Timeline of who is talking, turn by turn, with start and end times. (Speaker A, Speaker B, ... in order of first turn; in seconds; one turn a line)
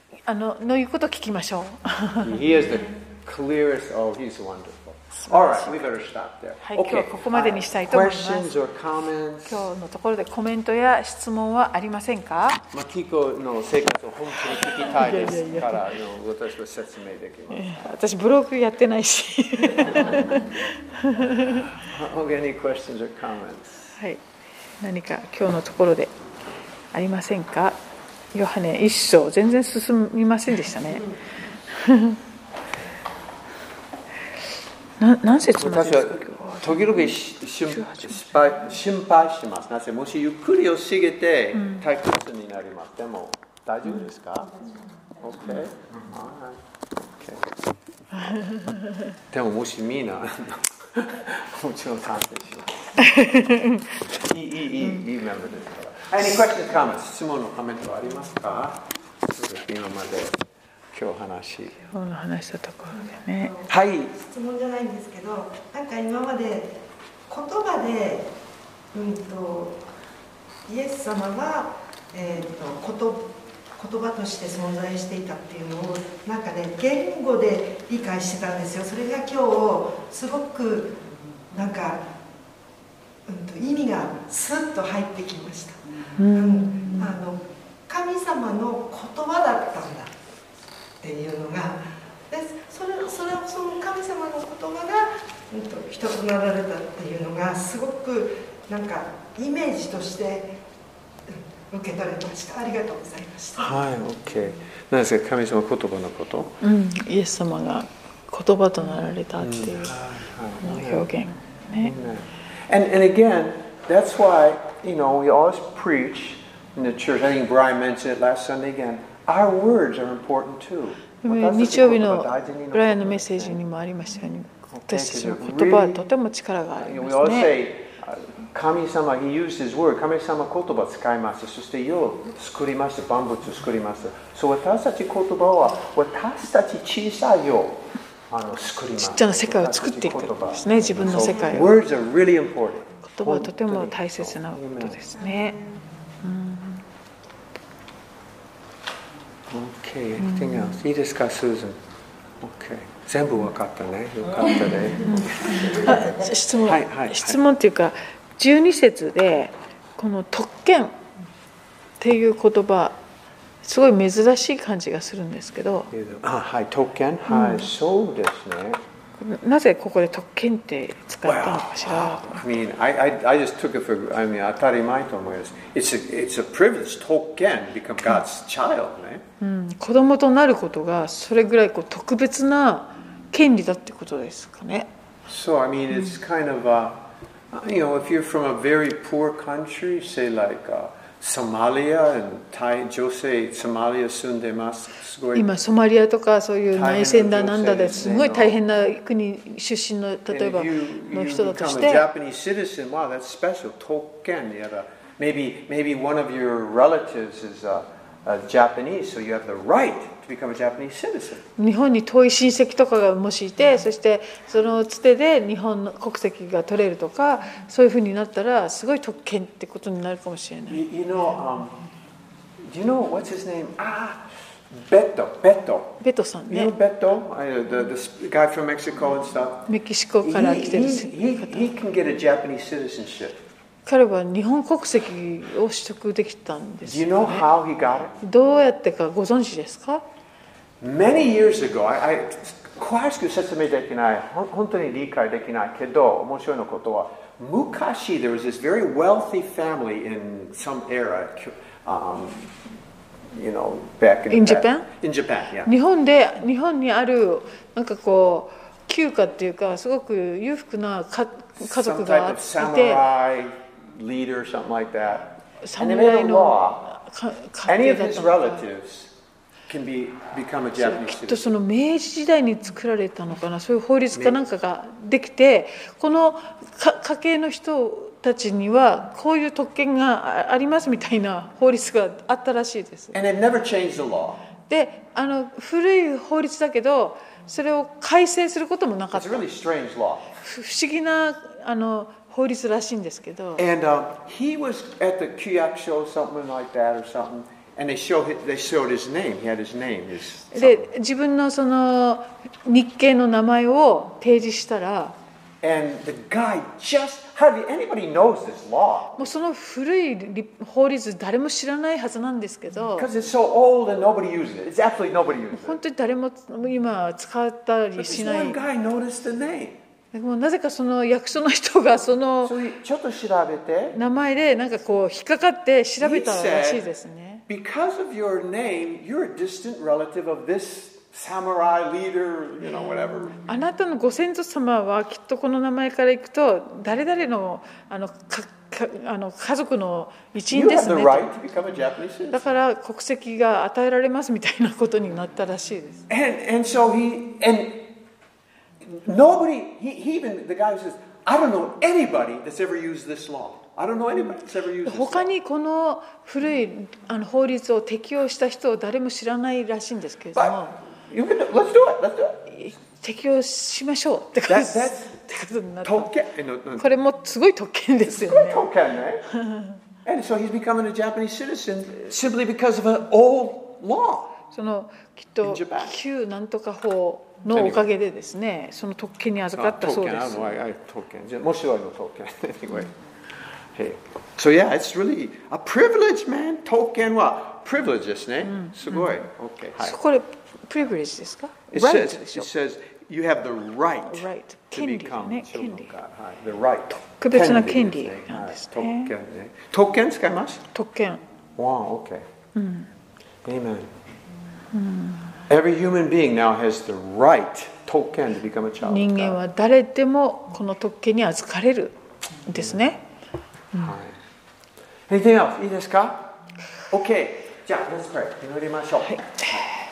Speaker A: 0.2-2.4
Speaker B: 2.2-9.7
Speaker A: 5.2-5.9
Speaker A: 6.6-8.5
Speaker A: 9.4-12.6
Speaker B: 12.7-17.7
Speaker A: 14.5-15.9
Speaker A: 17.5-21.8
Speaker B: 21.5-23.9
Speaker A: 23.9-24.2
Speaker A: 24.8-26.1
Speaker A: 26.9-27.8
Speaker A: 28.3-31.1
Speaker A: 31.7-32.2
Speaker A: 35.0-38.2
Speaker B: 35.5-44.6
Speaker A: 41.5-41.8
Speaker B: 45.2-46.6
Speaker B: 47.1-47.5
Speaker A: 48.1-49.1
Speaker B: 49.3-53.3
Speaker A: 53.0-54.0
Speaker B: 54.1-58.8
Speaker B: 59.4-60.4
Speaker B: 60.9-61.9
Speaker A: 61.9-63.5
Speaker C: 62.9-66.7
Speaker B: 63.7-64.1
Speaker C: 67.3-68.3
Speaker C: 68.9-69.8
Speaker C: 70.7-81.0
Speaker C: 81.5-82.0
Speaker C: 83.2-90.1
Speaker A: 86.2-87.1
Speaker C: 91.0-100.6
Speaker C: 101.3-103.7
Speaker B: 103.6-106.6
Speaker A: 106.6-110.0
Speaker B: 109.4-111.1
Speaker A: 110.6-111.9
Speaker B: 111.8-123.6
Speaker A: 121.2-127.6
Speaker B: 124.7-126.0
Speaker B: 126.8-145.0
Speaker A: 139.0-141.7
Speaker C: 141.0-141.7
Speaker A: 143.1-145.6
Speaker C: 145.2-145.7
Speaker A: 146.2-146.8
Speaker B: 149.5-151.8
Speaker A: 150.2-150.8
Speaker B: 152.4-156.0
Speaker A: 155.0-160.9
Speaker B: 156.6-157.4
Speaker A: 162.0-163.0
Speaker A: 163.6-165.9
Speaker B: 165.9-168.8
Speaker A: 167.3-167.7
Speaker A: 169.2-172.4
Speaker B: 171.2-179.2
Speaker A: 179.4-184.9
Speaker B: 185.3-187.0
Speaker B: 187.5-195.5
Speaker A: 195.3-202.1
Speaker B: 196.7-198.5
Speaker B: 200.3-211.4
Speaker A: 211.6-220.8
Speaker B: 220.7-221.8
Speaker B: 222.7-229.7
Speaker A: 226.0-226.7
Speaker A: 229.7-231.7
Speaker B: 230.2-233.4
Speaker A: 233.8-237.5
Speaker B: 236.8-238.2
Speaker A: 238.2-240.0
Speaker B: 240.8-252.6
Speaker B: 253.3-255.7
Speaker A: 254.3-254.9
Speaker A: 255.6-263.0
Speaker B: 261.6-266.8
Speaker A: 265.6-268.6
Speaker B: 267.7-269.1
Speaker B: 269.7-271.5
Speaker A: 270.8-283.1
Speaker B: 283.1-284.4
Speaker A: 284.7-289.4
Speaker B: 289.1-290.3
Speaker A: 290.4-293.7
Speaker B: 293.6-300.9
Speaker A: 300.5-305.1
Speaker B: 305.6-309.4
Speaker A: 309.1-313.1
Speaker B: 312.9-315.8
Speaker A: 315.5-318.6
Speaker B: 317.9-319.8
Speaker A: 320.1-322.6
Speaker B: 322.4-324.0
Speaker A: 323.9-327.4
Speaker B: 326.0-326.8
Speaker B: 327.5-333.4
Speaker A: 333.4-341.3
Speaker B: 340.5-342.5
Speaker A: 342.3-346.1
Speaker B: 346.1-347.9
Speaker B: 348.8-355.3
Speaker A: 354.8-360.8
Speaker B: 360.3-362.5
Speaker A: 362.5-366.1
Speaker B: 364.4-365.1
Speaker B: 365.8-366.9
Speaker A: 366.8-368.6
Speaker B: 368.1-369.3
Speaker A: 369.3-369.8
Speaker B: 370.1-374.4
Speaker A: 374.5-380.5
Speaker B: 375.4-375.9
Speaker B: 377.5-377.9
Speaker B: 379.5-382.9
Speaker B: 383.7-390.0
Speaker A: 388.6-389.1
Speaker A: 389.8-392.5
Speaker B: 391.7-400.6
Speaker A: 394.0-395.9
Speaker A: 397.1-399.1
Speaker A: 400.7-401.2
Speaker B: 401.6-402.3
Speaker A: 402.6-402.9
Speaker B: 403.4-403.9
Speaker A: 404.7-405.4
Speaker B: 405.5-409.4
Speaker A: 408.8-413.0
Speaker B: 413.7-414.2
Speaker B: 415.1-416.3
Speaker B: 416.9-419.7
Speaker A: 419.2-419.6